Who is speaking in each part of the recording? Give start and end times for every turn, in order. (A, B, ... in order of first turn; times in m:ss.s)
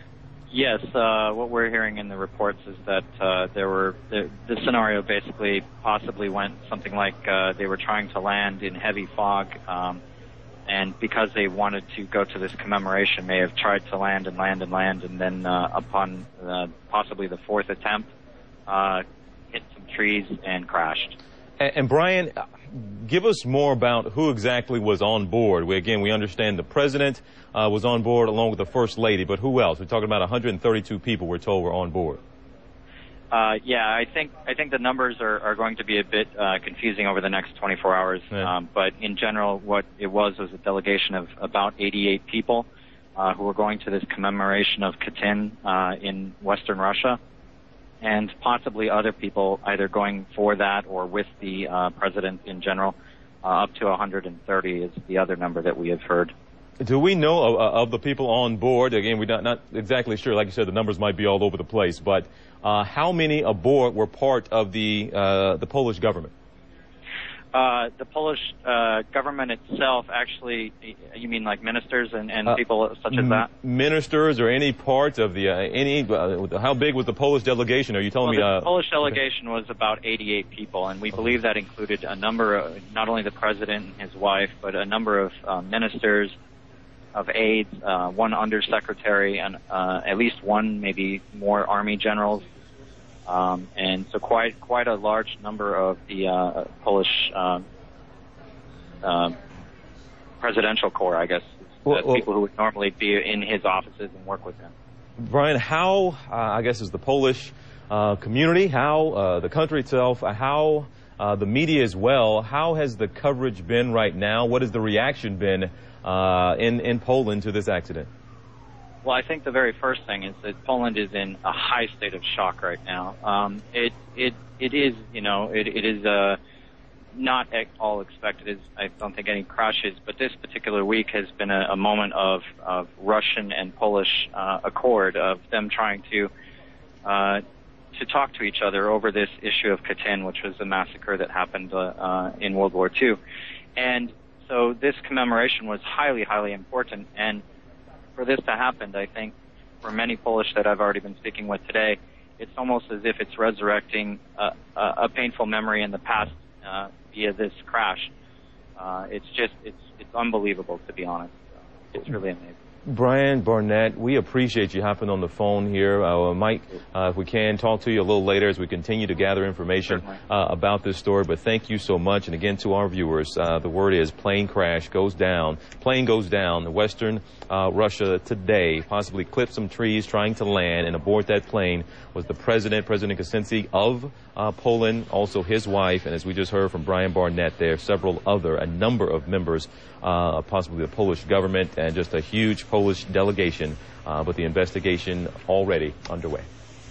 0:00.5-0:10.0 A
0:10.7-0:18.1 A
0:18.7-0:21.2 A
0:21.6-0:32.2 B
0:33.3-0:47.2 A
0:48.0-0:56.3 A
0:56.8-1:06.3 B
1:07.5-1:13.5 A
1:13.1-1:18.7 B
1:18.2-1:26.3 A
1:27.1-1:32.4 A
1:33.3-1:37.6 A
1:39.0-1:39.3 A
1:40.4-1:44.7 A
1:41.8-1:42.2 B
1:45.2-1:58.1 B
1:59.0-2:06.4 A
2:07.1-2:16.3 A
2:17.0-2:17.4 A
2:17.9-2:23.2 A
2:23.8-2:27.4 A
2:28.2-2:38.1 A
2:38.8-2:41.4 A
2:41.9-2:42.5 A
2:42.9-3:16.5 B
2:49.9-2:50.2 A